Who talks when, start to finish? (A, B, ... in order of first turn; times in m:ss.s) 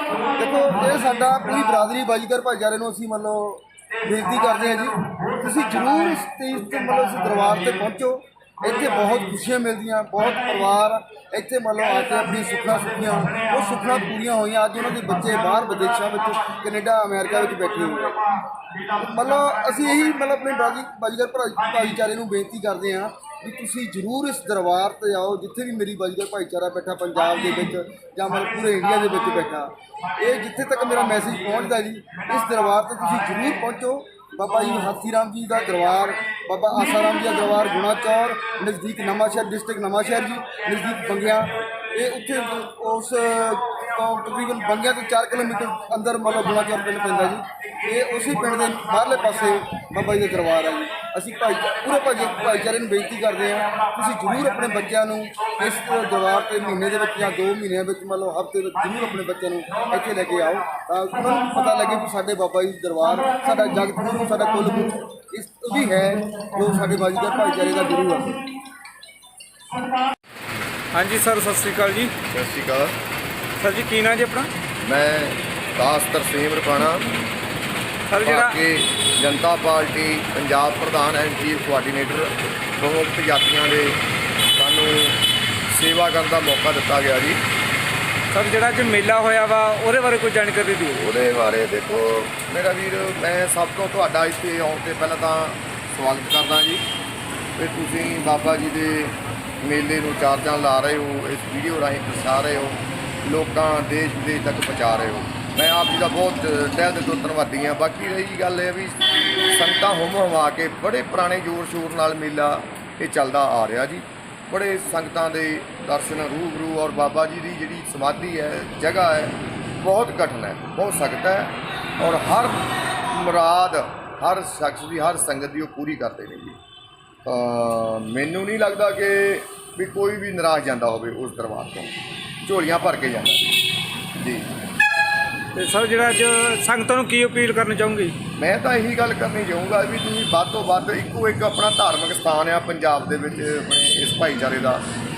0:00.4-0:18.3 A
0:19.0-1:08.4 A
1:10.9-1:12.1 B
1:12.3-1:13.0 C
1:13.6-1:14.5 B
1:14.8-1:17.1 C
1:18.1-1:18.6 B
1:18.2-1:24.0 C
1:24.6-1:27.4 C
1:28.3-1:31.0 B
1:31.0-1:36.8 C
1:37.6-2:06.6 C
2:07.2-2:13.6 C
2:14.2-2:14.5 C
2:15.6-2:18.2 B
2:18.4-2:24.8 C